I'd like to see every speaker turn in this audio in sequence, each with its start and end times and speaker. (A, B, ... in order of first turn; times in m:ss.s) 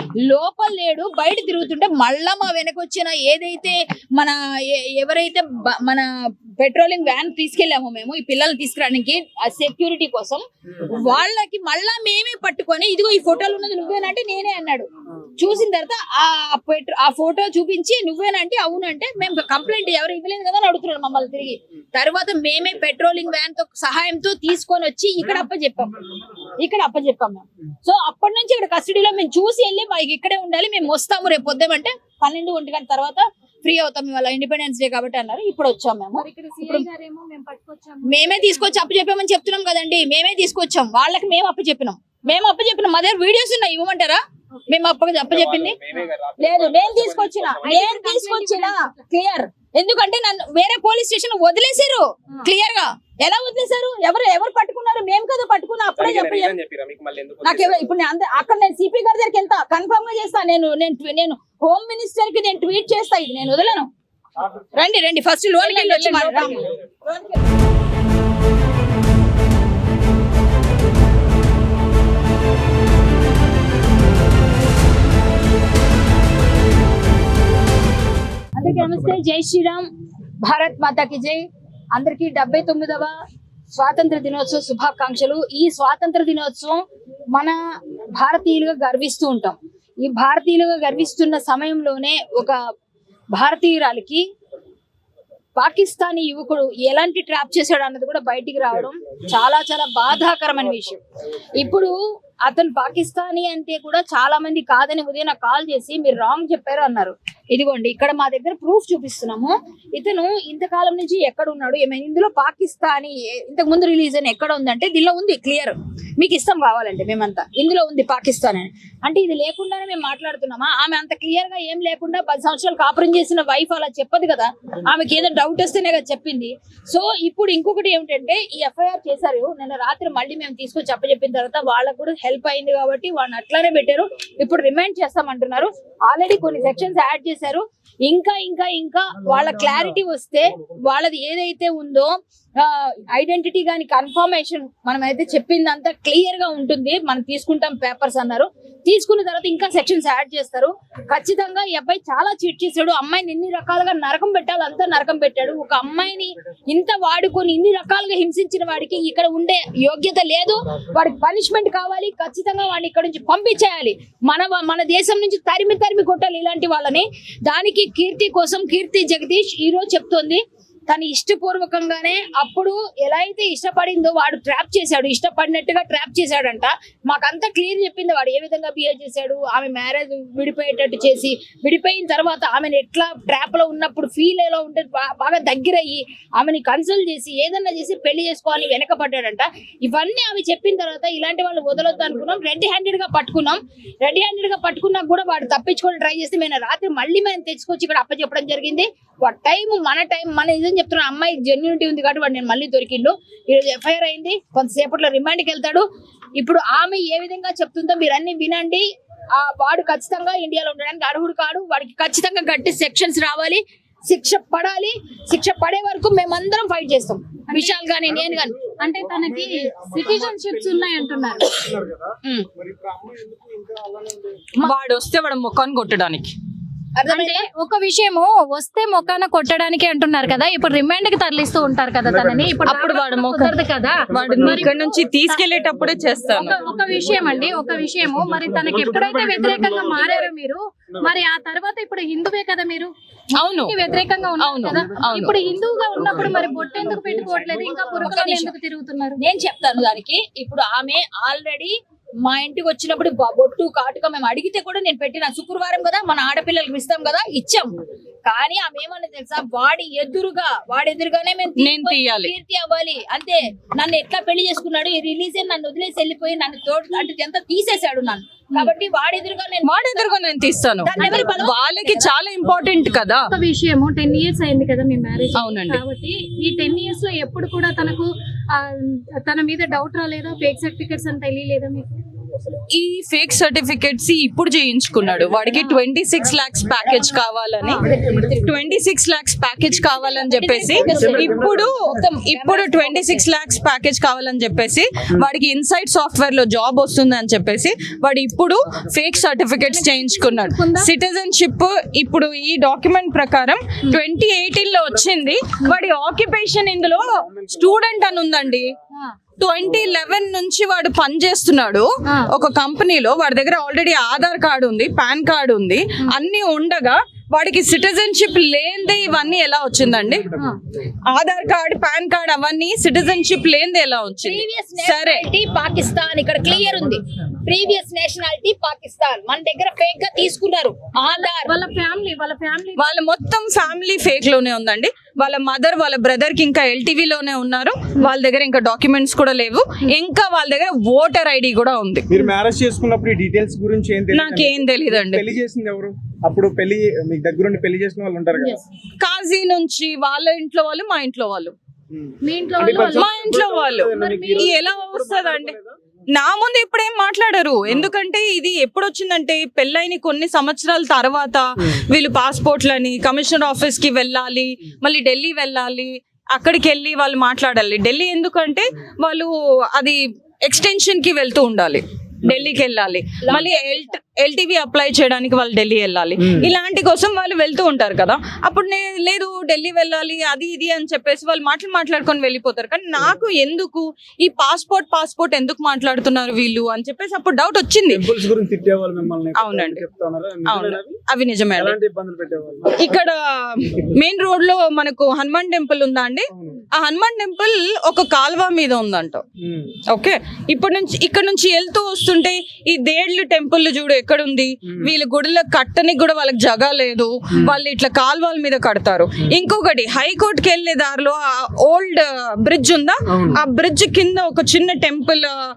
0:00.2-0:06.0 A
0:06.6-0:14.9 A
0:15.4-0:26.0 A
0:26.6-0:36.8 A
0:36.1-0:38.8 B
0:38.1-0:45.8 A
0:46.4-0:56.6 A
0:46.6-0:47.3 C
0:47.6-0:48.8 B
0:56.0-0:57.2 C
0:57.4-1:03.9 A
1:04.7-1:06.6 A
1:05.6-1:06.6 D
1:18.5-1:19.8 A
1:20.4-1:21.4 A
1:21.9-1:23.1 A
1:23.7-1:26.8 A
1:28.2-1:32.6 A
1:33.4-1:34.2 A
1:35.6-1:41.0 A
1:41.6-1:41.9 A
1:42.4-3:25.8 A
3:26.4-3:28.8 A
3:29.4-3:38.6 A
3:37.5-3:37.8 B
3:38.1-3:44.4 E
3:38.8-3:41.5 B
3:44.6-3:46.3 D
3:47.0-3:47.5 A
3:47.1-3:55.4 B
3:52.0-3:52.6 E
3:52.6-3:56.6 D
3:54.2-3:54.5 E
3:56.3-4:09.2 B
3:58.6-4:00.3 E
4:03.4-4:03.8 D
4:04.4-4:05.4 D
4:05.9-4:06.6 E
4:07.8-4:08.5 A
4:09.2-4:11.7 A
4:12.2-4:17.7 A
4:18.2-4:30.3 A
4:21.6-4:22.3 D
4:29.6-4:33.2 D
4:30.8-4:32.1 A
4:33.3-4:38.1 B
4:35.3-4:35.8 D
4:38.6-4:41.9 B
4:42.7-5:08.7 D
4:47.6-4:47.9 B
4:47.8-4:48.5 A
4:49.9-4:53.2 A
4:50.8-4:51.7 E
4:59.6-5:00.9 B
5:07.1-5:08.6 E
5:09.4-5:20.3 D
5:21.1-5:25.2 D
5:24.2-5:31.5 A
5:31.2-5:32.9 B
5:32.8-5:42.1 D
5:42.1-5:48.6 E
5:44.1-5:45.3 D
5:48.3-5:48.6 B
5:49.0-5:51.5 D
5:51.9-5:55.7 E
5:52.2-5:54.6 B
5:52.8-5:55.6 D
5:56.1-6:28.1 D
6:13.2-6:13.9 A
6:27.9-6:30.9 E
6:29.3-6:29.9 D
6:30.4-6:31.8 D
6:31.5-6:32.7 E
6:32.7-6:39.2 D
6:39.4-6:39.7 E
6:39.9-6:55.3 D